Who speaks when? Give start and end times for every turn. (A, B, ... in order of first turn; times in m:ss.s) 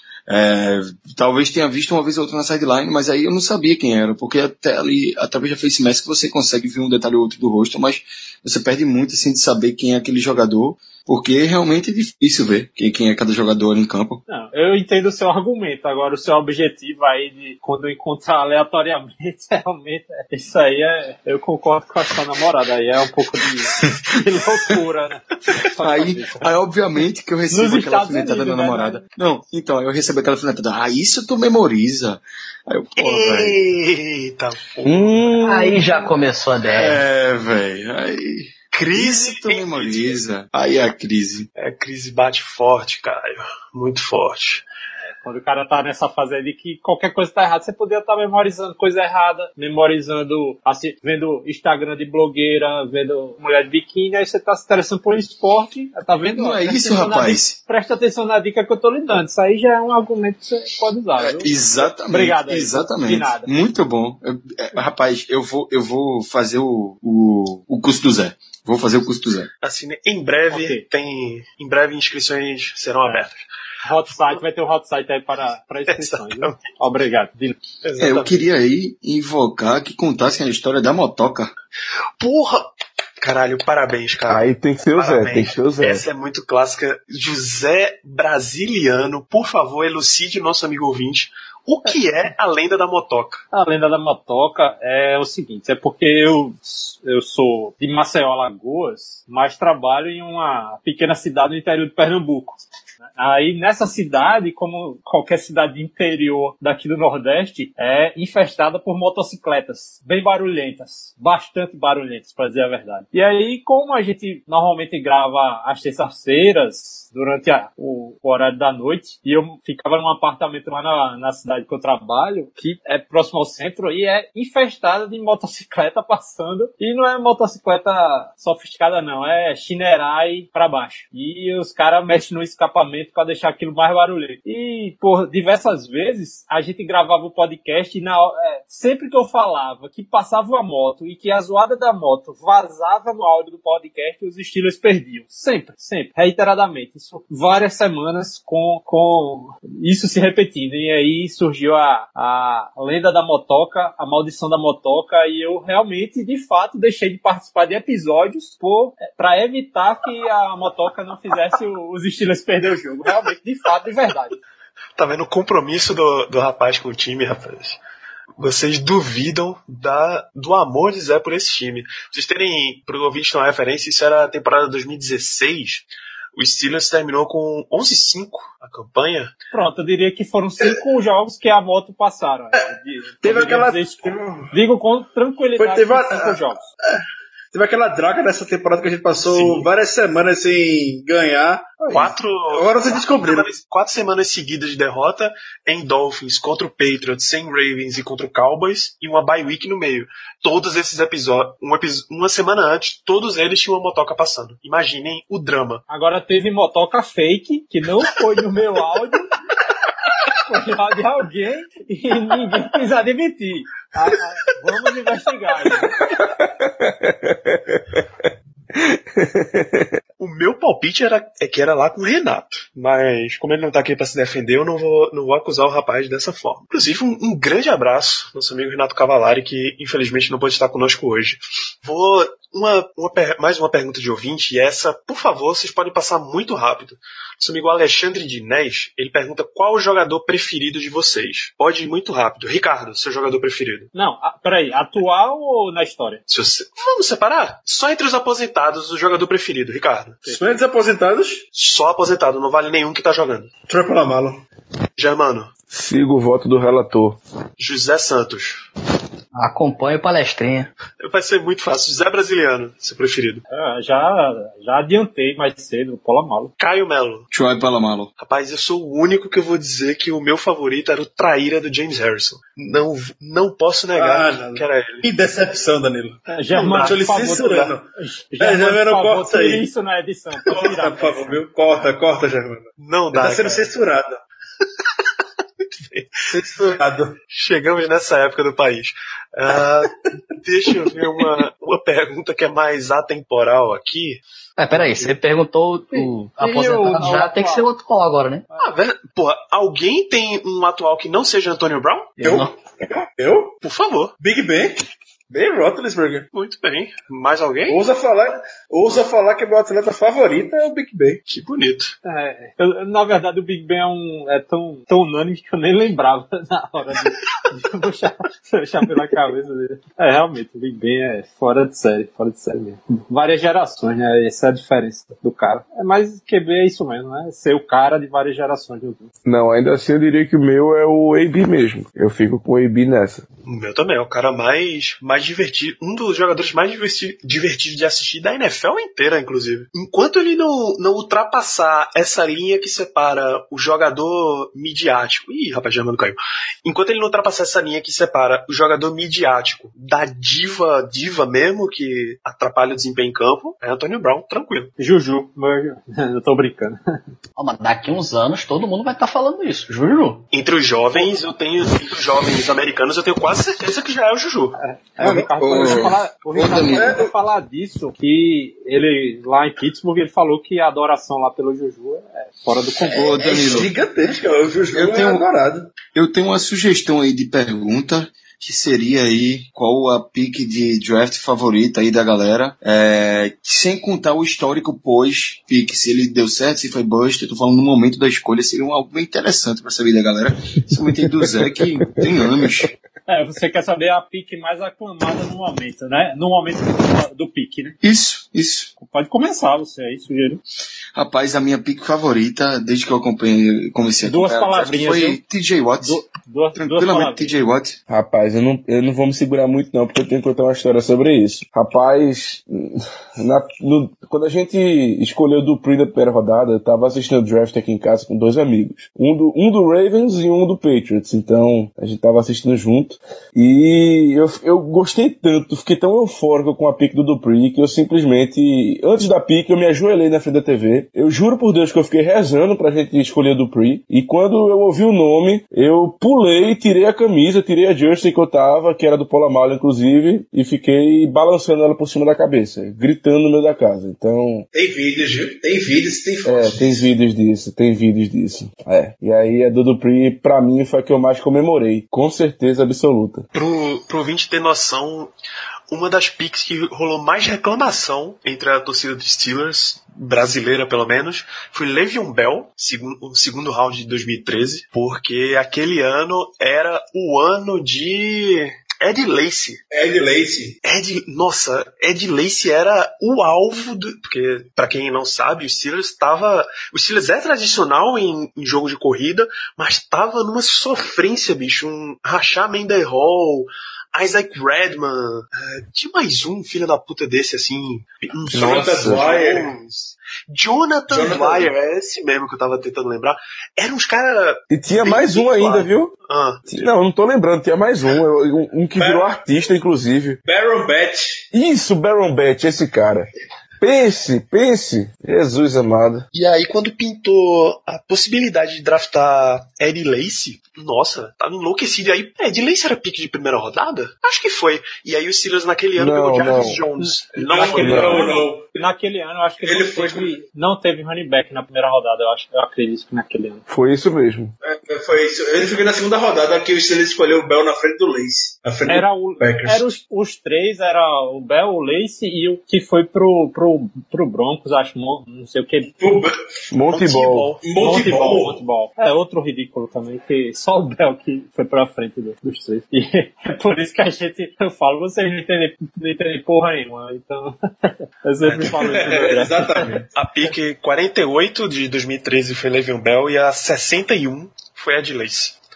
0:00.3-0:14.2 A
0:14.3-0:26.5 B
0:23.7-0:24.8 A
0:25.8-0:33.6 A
0:27.5-0:29.0 B
0:33.0-0:35.4 C
0:34.8-0:35.8 D
0:35.4-0:37.0 E
0:36.7-0:41.5 A
0:38.9-0:40.2 C
0:41.6-0:44.6 C
0:45.2-1:03.5 B
0:56.3-0:57.6 A
1:01.2-1:09.5 A
1:09.6-1:13.4 C
1:10.5-1:10.8 B
1:13.8-1:17.6 B
1:15.9-1:16.6 C
1:17.8-1:18.4 C
1:18.0-1:21.5 A
1:22.2-1:33.4 C
1:24.3-1:26.0 D
1:33.5-1:42.6 B
1:43.2-2:44.4 B
2:45.0-2:47.8 C
2:48.4-2:59.3 C
2:59.5-3:06.7 B
3:03.2-3:04.5 F
3:05.6-3:06.4 F
3:07.5-3:13.5 F
3:09.2-3:09.7 C
3:11.9-3:25.8 C
3:25.9-3:29.3 B
3:30.3-3:36.0 B
3:36.1-3:39.9 D
3:40.2-4:03.9 C
4:03.9-4:06.2 B
4:06.3-4:10.4 C
4:10.2-4:11.4 F
4:11.5-4:13.5 C
4:13.7-4:14.4 F
4:15.0-4:15.5 C
4:15.7-4:17.2 D
4:17.6-4:18.6 C
4:19.4-4:20.7 E
4:21.0-4:23.4 C
4:23.5-4:26.5 B
4:26.6-4:27.3 C
4:27.3-4:28.1 A
4:28.2-4:35.1 C
4:34.0-4:37.8 F
4:36.3-4:41.8 B
4:36.5-4:37.0 C
4:38.4-4:39.6 F
4:40.4-4:44.2 F
4:42.8-4:43.7 C
4:45.6-4:46.1 C
4:46.3-4:47.2 F
4:47.3-4:54.2 C
4:54.6-4:58.4 E
4:54.7-4:55.1 C
4:55.9-4:57.7 B
4:58.6-5:02.2 C
5:02.2-5:02.5 E
5:02.2-5:03.6 F
5:03.6-5:04.1 C
5:04.2-5:04.8 F
5:05.3-5:06.3 F
5:06.3-5:07.8 C
5:07.7-5:11.2 F
5:11.3-5:11.9 C
5:12.0-5:29.1 B
5:29.2-5:33.2 D
5:33.4-5:54.7 C
5:54.8-5:57.0 B
5:57.4-6:00.2 E
6:00.3-6:04.6 C
6:04.6-6:13.2 B
6:05.0-6:07.0 A
6:06.7-6:07.1 F
6:12.9-6:13.7 A
6:13.1-6:15.7 F
6:14.7-6:15.3 A
6:15.9-6:32.7 A
6:31.8-6:32.2 D
6:33.1-6:37.8 B
6:37.8-6:38.7 A
6:38.8-6:40.4 B
6:40.9-6:46.0 A
6:44.0-6:45.2 B
6:45.8-6:47.4 B
6:46.6-6:47.8 A
6:47.9-7:24.4 D
7:24.5-7:26.9 F
7:26.2-7:33.2 D
7:33.3-7:35.1 C
7:35.7-7:49.6 C
7:49.7-7:50.6 F
7:50.6-8:16.7 C
8:08.3-8:09.5 F
8:08.3-8:09.0 D
8:10.9-8:11.5 F
8:14.5-8:15.9 D
8:16.5-8:20.2 D
8:18.8-8:19.1 F
8:20.2-8:21.2 F
8:21.3-8:23.1 D
8:23.6-8:26.0 D
8:26.1-8:38.1 C
8:35.8-8:36.6 D
8:36.8-8:43.4 B
8:37.4-8:38.6 F
8:37.6-8:38.0 D
8:39.4-8:40.2 F
8:43.5-8:44.3 D
8:44.4-8:49.7 F
8:48.7-8:55.7 B
8:55.8-8:56.2 F
8:56.5-8:57.3 D
8:56.7-8:57.4 C
8:57.4-8:58.4 F
8:57.6-9:09.7 B
9:08.2-9:08.9 C
9:08.4-9:09.9 F
9:09.9-9:15.4 C